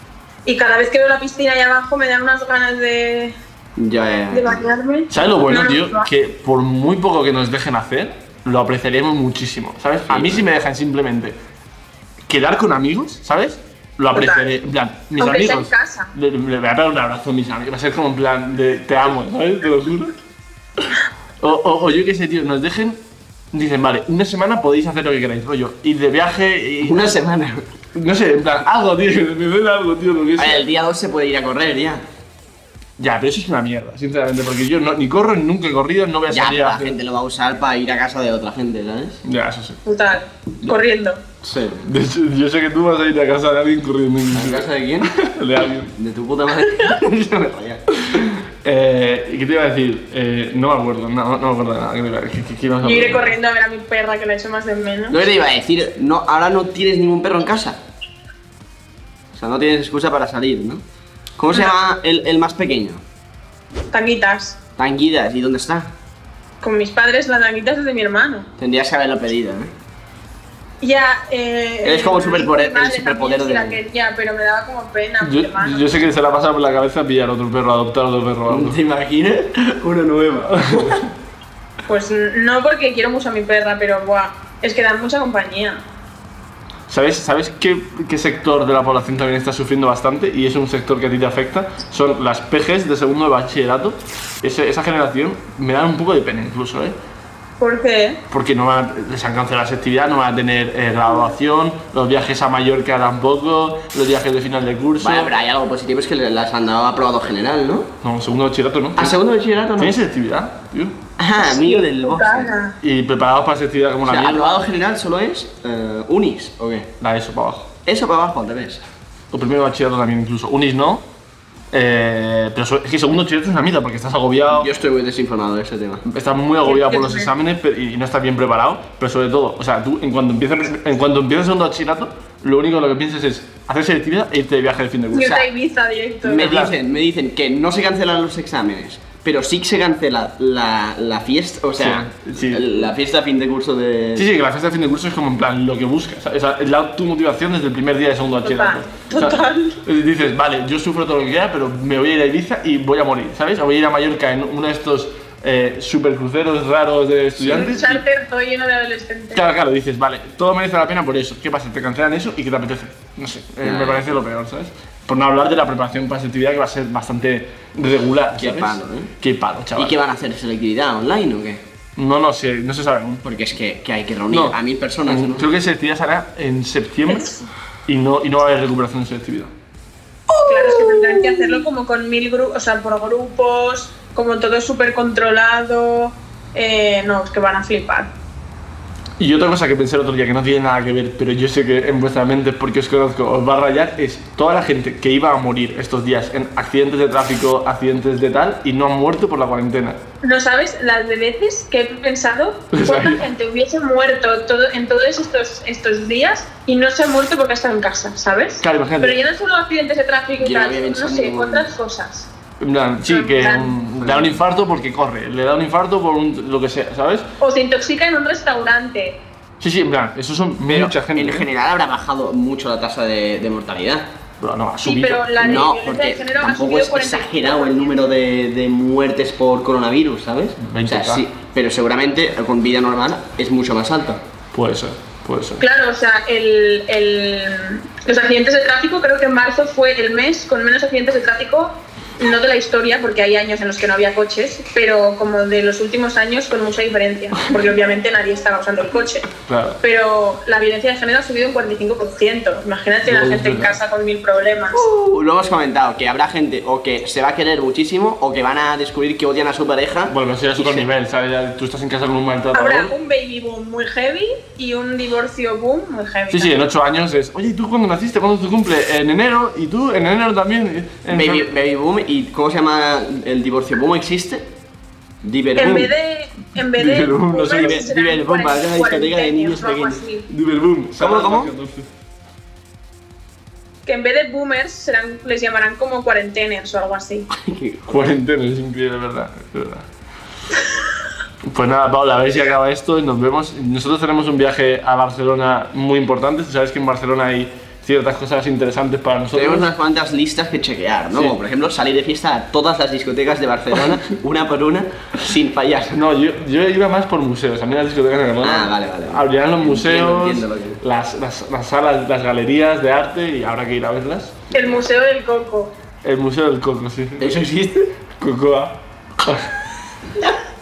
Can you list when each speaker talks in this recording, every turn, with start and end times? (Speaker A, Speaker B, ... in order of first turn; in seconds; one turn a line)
Speaker A: 0.5-3.3
Speaker B: 3.8-4.6
Speaker A: 4.3-6.1
Speaker C: 5.1-11.3
Speaker B: 10.1-10.4
Speaker C: 12.3-20.1
Speaker A: 14.1-14.4
Speaker A: 15.2-16.1
Speaker C: 21.4-23.0
Speaker C: 23.5-27.1
Speaker B: 26.8-27.7
Speaker C: 27.9-30.7
Speaker B: 30.4-32.0
Speaker C: 33.0-37.0
Speaker B: 36.3-39.2
Speaker C: 39.2-39.8
Speaker A: 39.9-41.2
Speaker B: 41.4-41.9
Speaker C: 41.8-45.9
Speaker B: 44.3-45.1
Speaker B: 46.0-47.8
Speaker C: 48.0-53.3
Speaker A: 52.8-55.2
Speaker B: 55.1-57.8
Speaker B: 59.3-60.8
Speaker B: 61.4-63.0
Speaker A: 63.9-64.6
Speaker B: 64.8-65.9
Speaker A: 66.6-68.5
Speaker B: 68.6-69.7
Speaker A: 70.8-75.9
Speaker B: 71.8-73.8
Speaker C: 75.2-78.8
Speaker B: 78.5-81.0
Speaker C: 80.5-81.1
Speaker A: 81.9-85.8
Speaker C: 86.9-97.0
Speaker A: 97.6-98.2
Speaker C: 98.3-105.3
Speaker B: 105.0-107.9
Speaker C: 108.0-109.2
Speaker B: 109.0-110.0
Speaker C: 109.8-111.0
Speaker B: 111.2-112.5
Speaker A: 111.4-112.7
Speaker C: 112.8-114.6
Speaker B: 114.0-116.9
Speaker C: 117.0-117.7
Speaker B: 117.8-118.8
Speaker C: 119.3-121.0
Speaker C: 121.7-124.7
Speaker B: 124.5-126.0
Speaker C: 126.0-135.4
Speaker A: 126.7-127.3
Speaker A: 135.1-136.5
Speaker B: 136.2-144.3
Speaker C: 136.4-136.7
Speaker C: 141.8-142.9
Speaker C: 144.2-158.0
Speaker A: 148.4-149.8
Speaker A: 157.5-159.4
Speaker C: 159.3-169.9
Speaker B: 163.6-164.2
Speaker B: 168.3-169.1
Speaker B: 169.8-171.6
Speaker C: 171.9-173.2
Speaker B: 173.2-175.5
Speaker C: 174.3-177.3
Speaker A: 177.1-177.4
Speaker C: 177.9-179.5
Speaker B: 180.3-181.6
Speaker A: 180.4-188.1
Speaker C: 189.2-200.0
Speaker A: 200.2-212.3
Speaker C: 202.7-203.2
Speaker C: 208.6-209.2
Speaker B: 210.4-211.7
Speaker C: 212.6-217.2
Speaker A: 213.1-213.7
Speaker B: 214.0-214.3
Speaker A: 217.4-219.2
Speaker C: 219.6-221.5
Speaker B: 220.7-224.1
Speaker C: 224.4-225.3
Speaker A: 224.8-228.1
Speaker B: 225.4-234.2
Speaker C: 230.6-231.2
Speaker C: 234.5-235.6
Speaker A: 235.6-249.3
Speaker C: 249.4-249.8
Speaker A: 249.8-254.8
Speaker C: 253.0-253.8
Speaker B: 254.7-260.9
Speaker C: 260.1-262.9
Speaker A: 262.5-266.5
Speaker C: 266.3-271.5
Speaker B: 271.1-274.5
Speaker B: 275.2-275.9
Speaker A: 275.6-280.3
Speaker C: 276.6-277.8
Speaker B: 277.5-280.0
Speaker C: 280.3-281.9
Speaker B: 280.9-281.5
Speaker A: 283.9-287.3
Speaker B: 287.3-287.9
Speaker C: 287.9-289.9
Speaker C: 291.4-299.7
Speaker B: 299.3-306.0
Speaker C: 305.9-314.3
Speaker B: 308.4-310.8
Speaker A: 314.5-315.7
Speaker C: 316.0-317.3
Speaker B: 317.2-317.9
Speaker C: 318.2-319.5